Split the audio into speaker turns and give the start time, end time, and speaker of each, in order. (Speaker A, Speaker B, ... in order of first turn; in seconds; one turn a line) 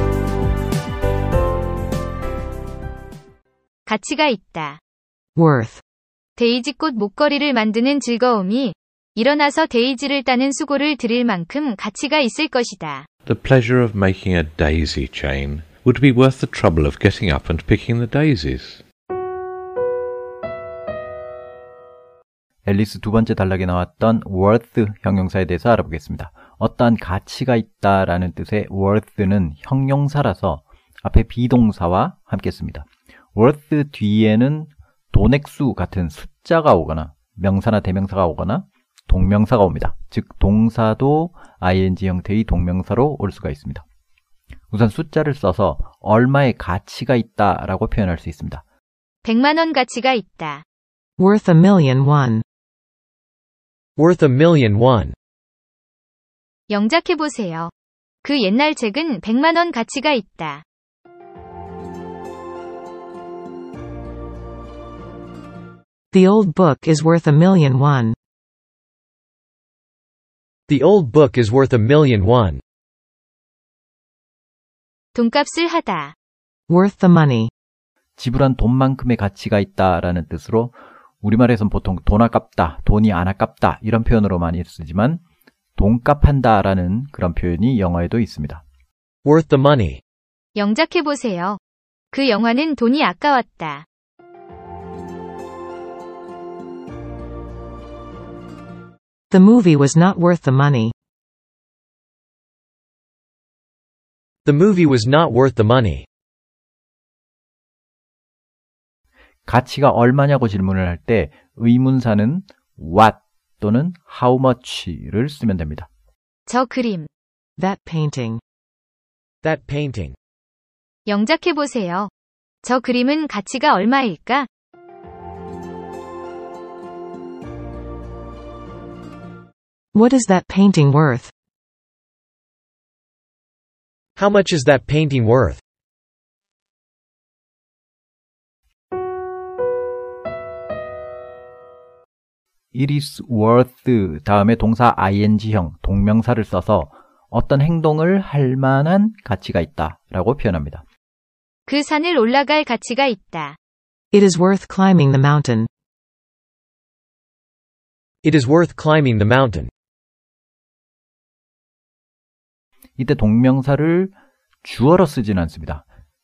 Speaker A: 3.9-4.8
Speaker B: 5.3-5.8
Speaker A: 6.4-13.1
Speaker C: 13.2-18.8
Speaker D: 22.6-43.8
Speaker D: 44.7-48.6
Speaker A: 49.2-50.6
Speaker B: 51.2-52.4
Speaker E: 54.0-55.1
Speaker A: 56.7-57.7
Speaker A: 58.2-60.6
Speaker B: 66.1-68.2
Speaker E: 70.7-72.6
Speaker A: 75.1-76.1
Speaker B: 76.7-77.5
Speaker D: 78.2-85.2
Speaker D: 85.8-88.6
Speaker E: 89.2-90.0
Speaker A: 90.5-91.6
Speaker A: 92.1-93.8
Speaker B: 99.3-100.9
Speaker E: 104.4-106.0
Speaker D: 109.5-115.9
Speaker A: 116.5-117.1
Speaker B: 117.6-118.4
Speaker E: 119.4-120.2
Speaker A: 121.1-122.1
Speaker A: 122.6-124.5
Speaker B: 129.9-131.3
Speaker E: 134.2-135.6
Speaker D: 142.7-150.8
Speaker A: 151.7-153.6
Speaker B: 154.1-155.7
Speaker E: 158.2-159.7
Speaker D: 163.0-165.8